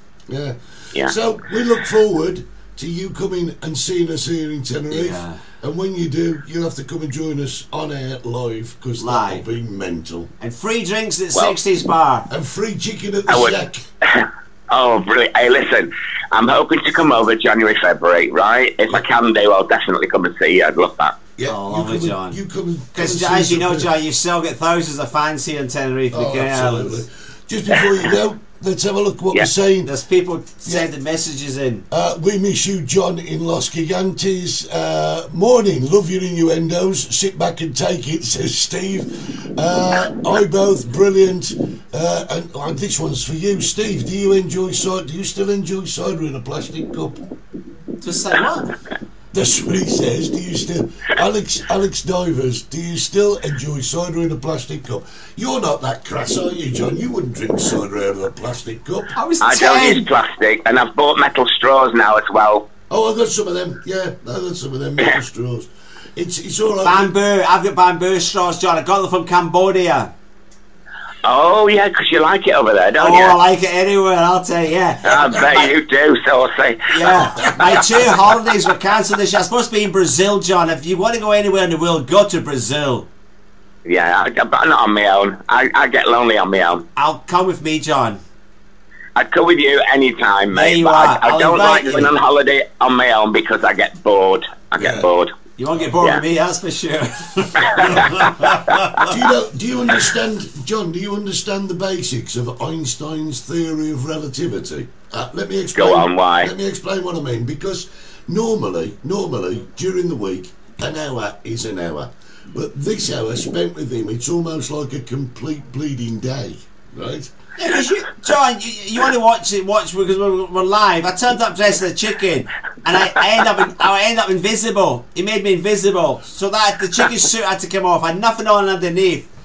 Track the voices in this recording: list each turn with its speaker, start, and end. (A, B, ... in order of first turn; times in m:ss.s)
0:00.3-0:10.3 A
0:04.9-0:05.4 B
0:09.0-0:09.4 B
0:10.4-0:12.3 B
0:12.3-0:13.8 A
0:13.3-0:21.2 C
0:21.4-0:23.9 A
0:21.5-0:22.4 B
0:23.0-0:27.0 B
0:26.1-0:29.9 A
0:29.8-0:31.8 B
0:30.6-0:30.9 A
0:31.9-0:47.2 A
0:48.0-0:48.7 B
0:49.3-0:59.2 A
0:59.2-1:00.1 B
0:59.4-1:02.7 C
1:02.9-1:07.1 A
1:06.8-1:10.1 B
1:11.2-1:13.4 C
1:13.0-1:15.7 B
1:15.0-1:18.0 C
1:16.9-1:23.1 B
1:23.8-1:26.8 C
1:27.0-1:28.2 B
1:29.2-1:35.3 C
1:30.5-1:32.1 B
1:34.8-1:35.1 A
1:35.6-1:39.1 B
1:37.8-1:38.6 C
1:39.0-1:57.3 A
1:45.8-1:46.5 C
1:57.6-2:09.3 B